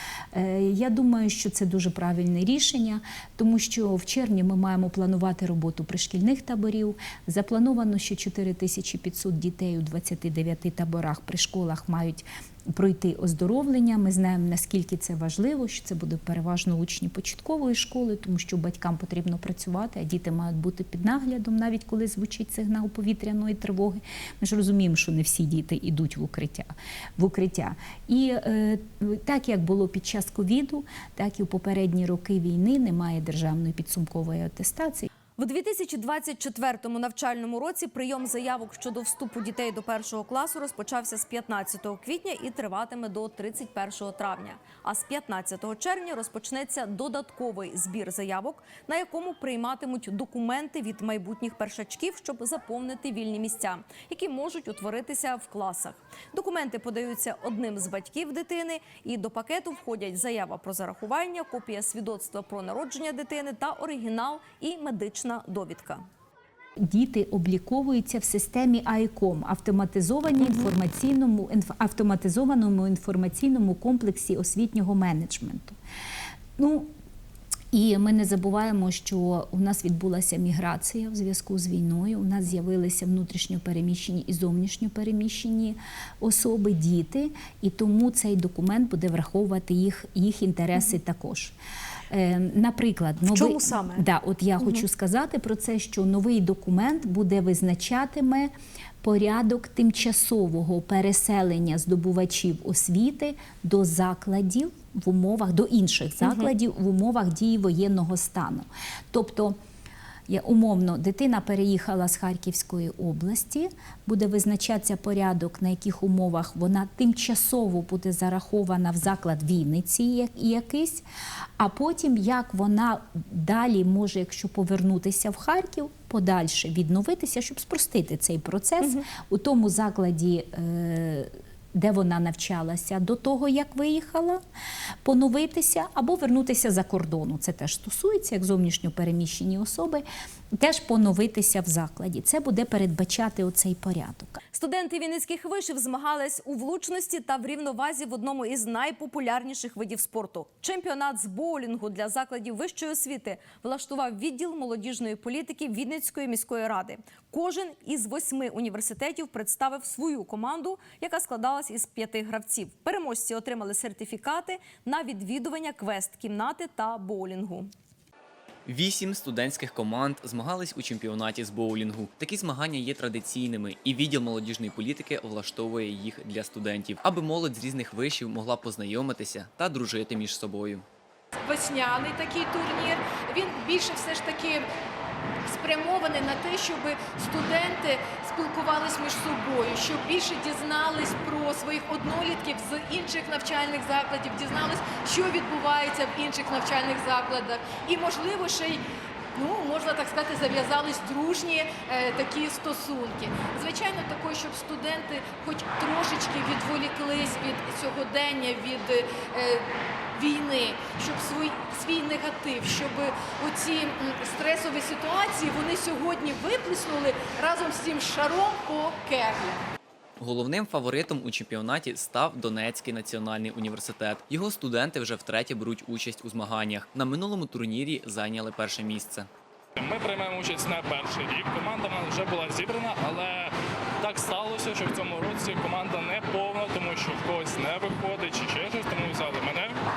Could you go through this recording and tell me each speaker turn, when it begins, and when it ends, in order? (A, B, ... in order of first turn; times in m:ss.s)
0:00.3-0:35.1 A
0:35.4-1:06.0 B
1:06.9-1:15.8 A
1:16.6-1:16.9 A
1:17.7-1:31.6 A
1:32.1-1:38.5 A
1:39.0-1:49.6 A
1:46.2-1:46.5 B
1:50.3-2:01.0 A
2:01.6-2:14.4 A
2:15.0-2:20.0 A
2:20.6-2:24.4 A
2:24.5-2:47.7 B
2:48.7-3:00.8 C
3:01.4-3:04.7 D
3:05.5-3:18.8 D
3:19.4-3:39.6 D
3:40.2-3:49.3 C
3:49.8-3:59.8 E